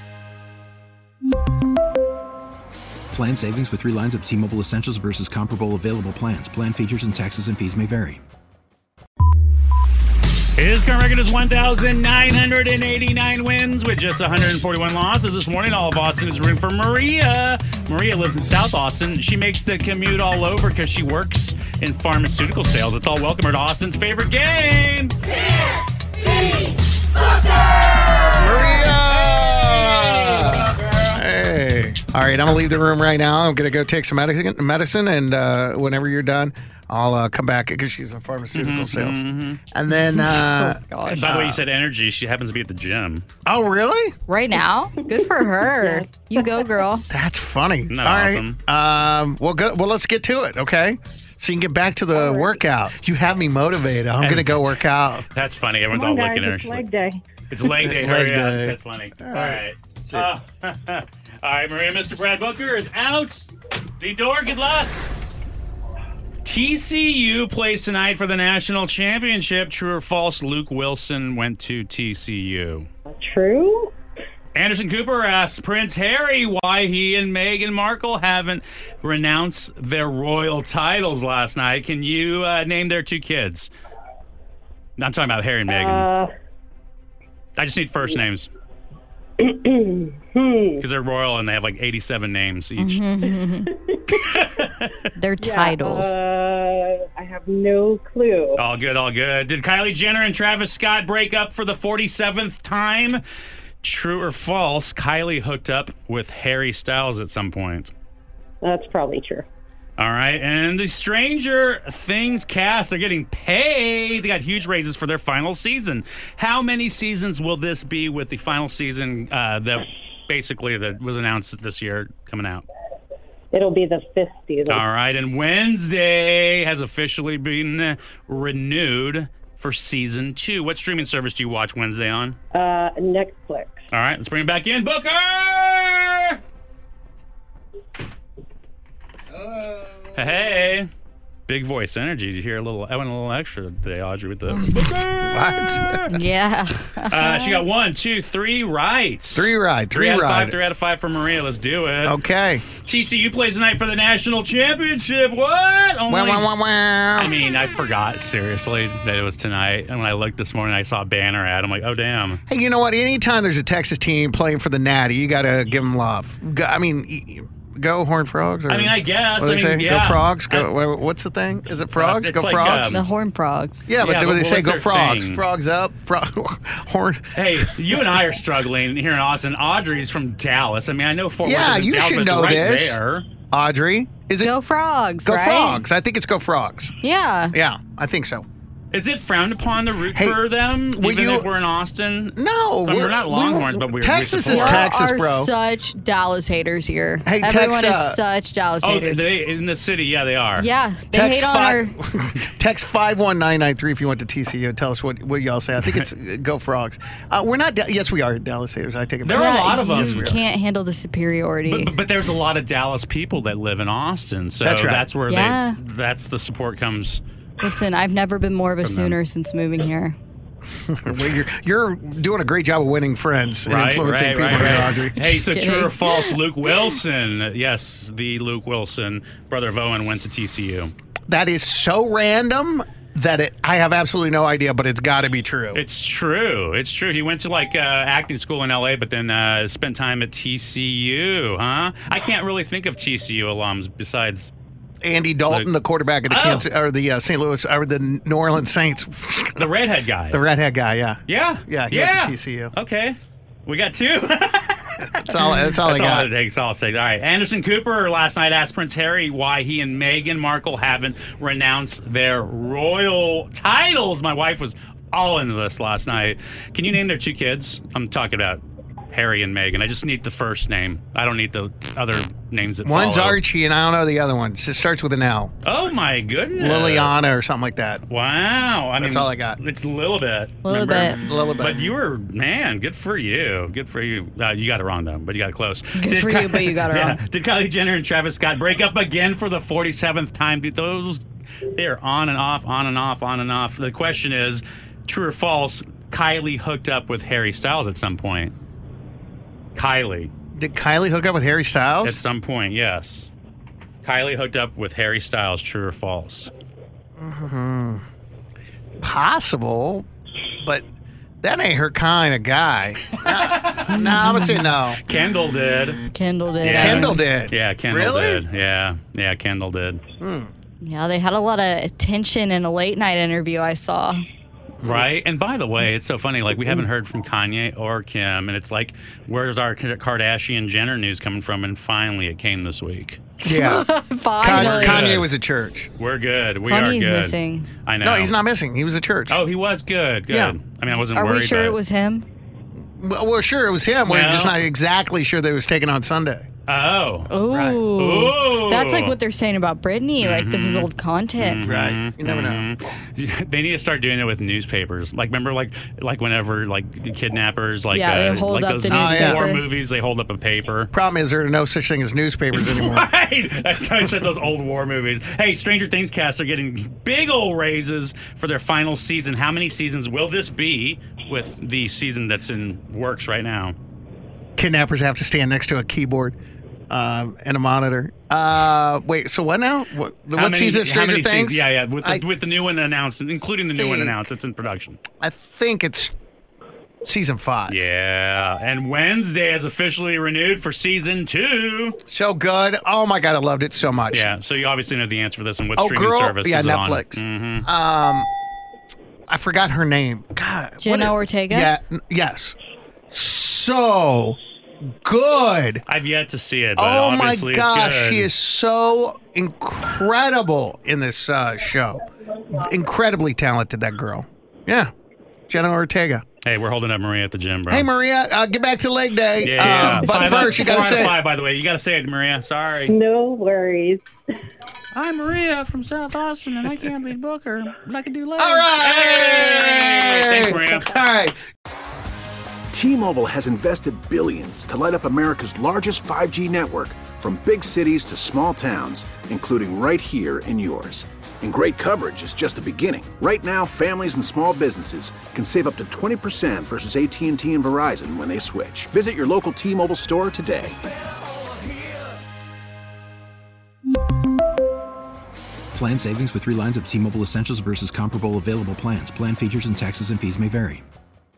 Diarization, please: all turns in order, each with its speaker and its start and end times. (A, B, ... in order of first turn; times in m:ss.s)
0:03.1-0:08.2 A
0:10.6-0:25.2 B
0:28.3-0:41.6 C
0:38.6-0:39.6 B
0:39.9-0:41.4 D
0:41.1-0:43.3 B
0:43.5-0:44.2 C
0:44.3-0:47.1 D
0:45.9-0:46.4 E
0:47.1-0:55.3 C
0:47.9-0:48.6 B
0:52.2-0:52.6 E
0:54.2-0:54.7 B
0:55.3-0:56.8 B
0:55.9-0:57.2 E
0:57.5-1:04.9 B
0:57.7-1:00.3 C
1:06.4-1:12.9 B
1:13.1-1:13.9 E
1:14.6-1:23.7 B
1:25.0-1:26.1 B
1:25.7-1:26.3 E
1:27.6-1:28.5 B
1:29.4-1:30.8 E
1:30.8-1:33.5 B
1:32.8-1:33.7 D
1:34.1-1:34.9 B
1:35.2-1:36.2 D
1:35.4-1:38.6 E
1:38.6-1:43.2 B
1:43.8-1:47.9 B
1:48.6-1:49.5 E
1:50.0-2:02.7 B
2:03.5-2:04.8 E
2:04.7-2:12.4 B
2:12.5-2:13.7 E
2:13.9-2:16.4 B
2:19.3-2:20.6 C
2:20.1-2:20.9 B
2:21.5-2:26.2 B
2:24.5-2:26.1 C
2:26.1-2:27.7 D
2:27.1-2:32.2 B
2:29.4-2:30.6 C
2:32.0-2:32.7 C
2:32.8-2:36.5 B
2:36.1-2:37.4 C
2:37.2-2:42.4 B
2:42.5-2:53.0 C
2:48.7-2:50.7 B
2:51.9-2:53.0 B
2:52.6-2:53.9 D
2:53.9-2:58.1 C
2:54.0-2:55.4 B
2:57.4-3:03.3 B
3:01.4-3:03.0 C
3:03.5-3:04.5 C
3:04.4-3:05.8 D
3:05.2-3:06.9 C
3:07.0-3:07.6 D
3:07.5-3:08.5 C
3:08.9-3:14.9 B
3:10.1-3:10.4 C
3:11.0-3:11.5 C
3:12.4-3:15.5 C
3:14.4-3:19.3 D
3:17.3-3:18.2 C
3:18.8-3:20.7 B
3:20.6-3:22.0 D
3:21.1-3:30.4 C
3:25.8-3:26.1 B
3:29.2-3:30.4 B
3:29.3-3:32.0 D
3:31.6-3:37.2 B
3:34.6-3:35.1 C
3:35.3-3:35.8 D
3:37.6-3:40.2 D
3:38.8-3:39.2 B
3:40.9-3:45.3 C
3:43.7-3:50.9 B
3:45.2-3:46.4 D
3:51.3-3:55.8 C
3:55.7-4:04.5 B
4:05.0-4:09.7 C
4:06.3-4:06.7 B
4:09.6-4:10.4 B
4:10.3-4:12.7 C
4:11.3-4:33.4 B
4:15.1-4:16.3 C
4:32.8-4:35.5 C
4:35.6-4:37.2 B
4:36.6-4:38.0 C
4:38.1-4:58.5 B
4:39.0-4:39.6 C
4:40.6-4:41.2 D
4:41.2-4:41.9 C
4:46.0-4:47.2 D
4:59.8-5:00.3 B
5:00.6-5:02.2 C
5:02.0-5:03.3 B
5:04.0-5:06.5 B
5:07.2-5:08.0 C
5:09.0-5:10.1 C
5:11.4-5:15.0 C
5:13.2-5:16.0 B
5:13.9-5:14.6 D
5:16.1-5:17.2 D
5:16.6-5:20.0 B
5:16.7-5:18.4 C
5:20.2-5:20.5 C
5:20.8-5:24.2 D
5:24.8-5:25.1 C
5:24.8-5:33.2 B
5:33.4-5:35.9 C
5:33.5-5:35.2 D
5:34.4-5:35.3 B
5:36.0-5:38.4 B
5:36.7-5:37.7 D
5:38.0-5:39.4 C
5:39.3-5:41.8 B
5:40.3-5:40.6 C
5:40.9-5:42.3 D
5:43.0-5:46.5 C
5:44.1-5:44.6 B
5:46.7-5:49.2 B
5:47.3-5:51.6 D
5:47.5-5:47.8 C
5:50.2-6:00.9 B
5:51.6-5:52.7 C
5:57.9-5:59.6 D
5:58.9-5:59.5 C
6:00.9-6:03.1 C
6:02.5-6:13.8 B
6:14.6-6:16.4 C
6:16.9-6:22.2 C
6:20.4-6:25.0 B
6:23.8-6:24.2 C
6:25.2-6:26.1 C
6:27.0-6:27.8 C
6:27.7-6:32.0 B
6:32.1-6:34.3 C
6:34.1-6:37.7 B
6:35.8-6:38.3 C
6:39.3-6:42.6 C
6:40.8-6:41.7 D
6:43.1-6:44.4 C
6:45.0-6:45.8 C
6:45.9-6:48.3 B
6:46.8-6:54.9 C
6:55.5-6:56.2 C
6:56.4-6:57.9 B
6:57.7-7:01.2 C
6:59.4-7:02.9 B
7:02.9-7:04.1 E
7:04.9-7:10.9 B
7:08.4-7:11.4 C
7:12.7-7:30.8 F
7:35.8-7:40.8 A